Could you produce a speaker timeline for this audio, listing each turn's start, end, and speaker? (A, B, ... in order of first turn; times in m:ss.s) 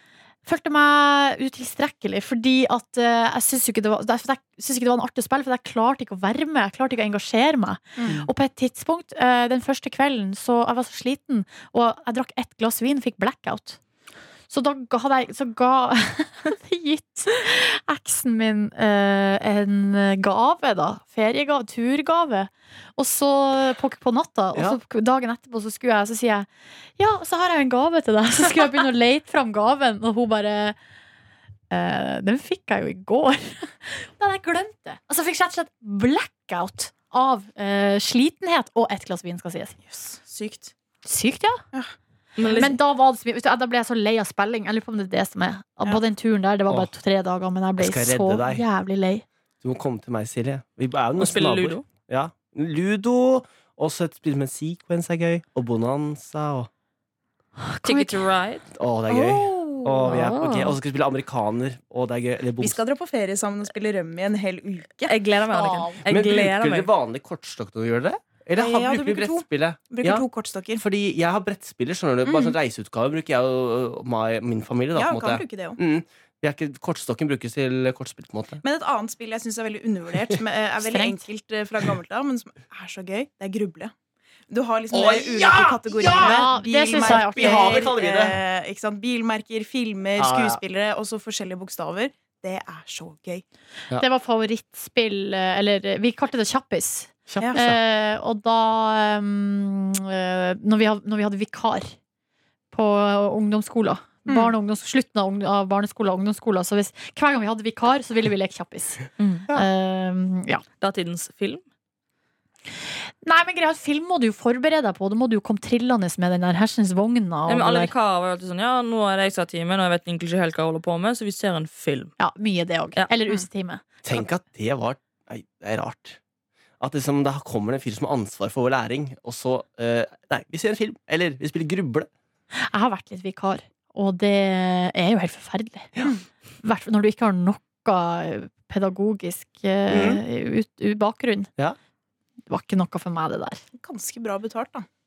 0:00.4-0:13.8 A
0:08.0-0:08.3 B
0:14.5-0:30.8 A
0:24.5-0:24.8 C
0:31.7-0:39.8 A
0:39.9-0:40.7 B
0:41.0-0:41.6 A
0:41.7-0:42.7 B
0:42.4-0:42.7 D
0:42.5-0:49.2 A
0:47.8-0:48.6 C
0:49.6-0:56.7 C
0:51.2-0:51.8 D
0:57.6-0:58.2 A
0:57.8-0:58.7 D
0:58.8-1:02.8 C
0:59.1-0:59.9 B
1:00.0-1:00.8 D
1:02.6-1:05.2 B
1:05.1-1:06.9 D
1:05.5-1:06.0 A
1:06.0-1:10.2 C
1:08.6-1:10.8 B
1:10.8-1:18.6 C
1:12.2-1:12.5 B
1:14.9-1:15.8 B
1:18.6-1:23.9 B
1:20.8-1:21.2 A
1:24.5-1:33.4 B
1:24.9-1:28.4 C
1:26.1-1:27.9 A
1:30.2-1:30.6 C
1:34.0-1:41.9 A
1:37.3-1:37.8 C
1:42.7-1:50.6 A
1:44.3-1:44.5 B
1:49.2-1:49.5 D
1:50.8-1:51.6 D
1:53.2-1:57.9 A
1:57.5-2:02.1 D
2:02.2-2:04.2 A
2:04.0-2:06.2 C
2:06.8-2:12.1 C
2:12.6-2:15.9 A
2:16.6-2:21.5 A
2:19.9-2:20.2 C
2:22.5-2:23.6 A
2:23.7-2:24.9 B